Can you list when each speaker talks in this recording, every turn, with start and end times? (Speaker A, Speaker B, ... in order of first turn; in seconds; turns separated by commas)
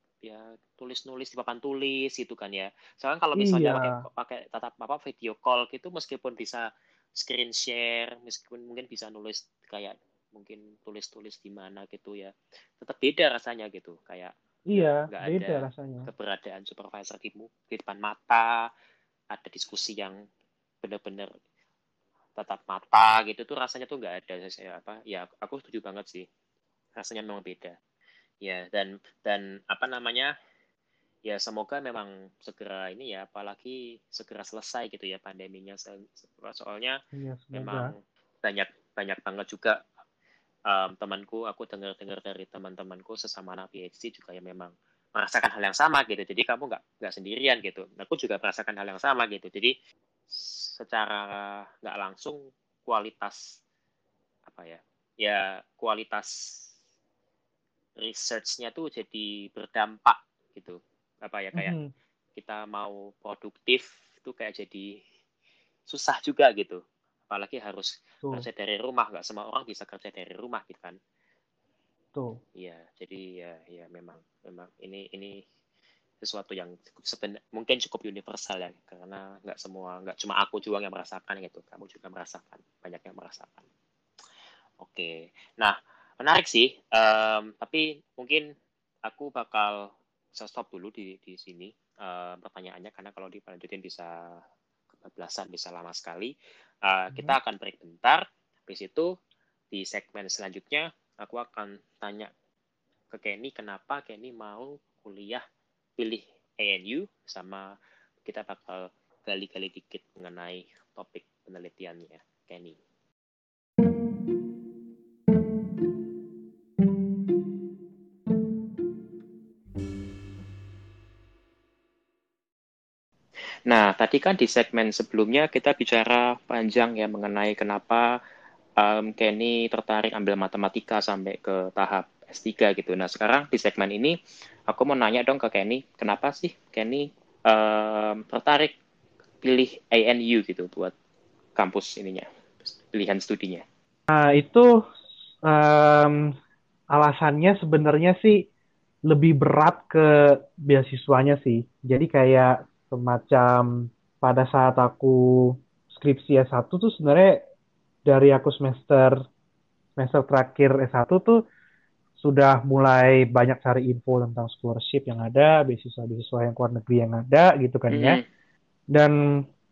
Speaker A: 0.2-18.7, Speaker B: 3.4-4.0, Speaker B: 14.7-16.1, Speaker A: 19.3-20.2, Speaker A: 20.8-21.3, Speaker A: 22.4-26.3, Speaker A: 26.9-27.7, Speaker A: 28.4-30.3, Speaker A: 31.2-37.0, Speaker B: 37.1-37.9, Speaker A: 37.5-39.8, Speaker A: 40.7-49.8, Speaker A: 50.3-53.6, Speaker A: 54.5-56.7, Speaker A: 58.0-61.8, Speaker B: 61.5-61.9, Speaker A: 62.4-64.9, Speaker A: 65.9-71.0, Speaker B: 72.1-72.4, Speaker A: 72.5-75.4, Speaker A: 76.2-83.6, Speaker A: 84.8-88.5, Speaker A: 89.0-94.4, Speaker A: 95.0-96.3, Speaker A: 96.8-99.1, Speaker A: 99.7-102.3, Speaker A: 103.1-105.4, Speaker A: 106.0-107.7, Speaker A: 108.2-112.8, Speaker A: 123.7-128.2, Speaker A: 128.8-134.2, Speaker A: 134.7-138.7, Speaker A: 139.4-140.9, Speaker A: 141.6-143.6, Speaker B: 144.1-144.8, Speaker B: 145.4-146.3, Speaker B: 146.9-148.5, Speaker B: 149.1-157.4, Speaker B: 158.1-159.2, Speaker B: 160.0-161.4, Speaker B: 162.2-168.2, Speaker A: 167.9-168.2, Speaker B: 168.9-169.4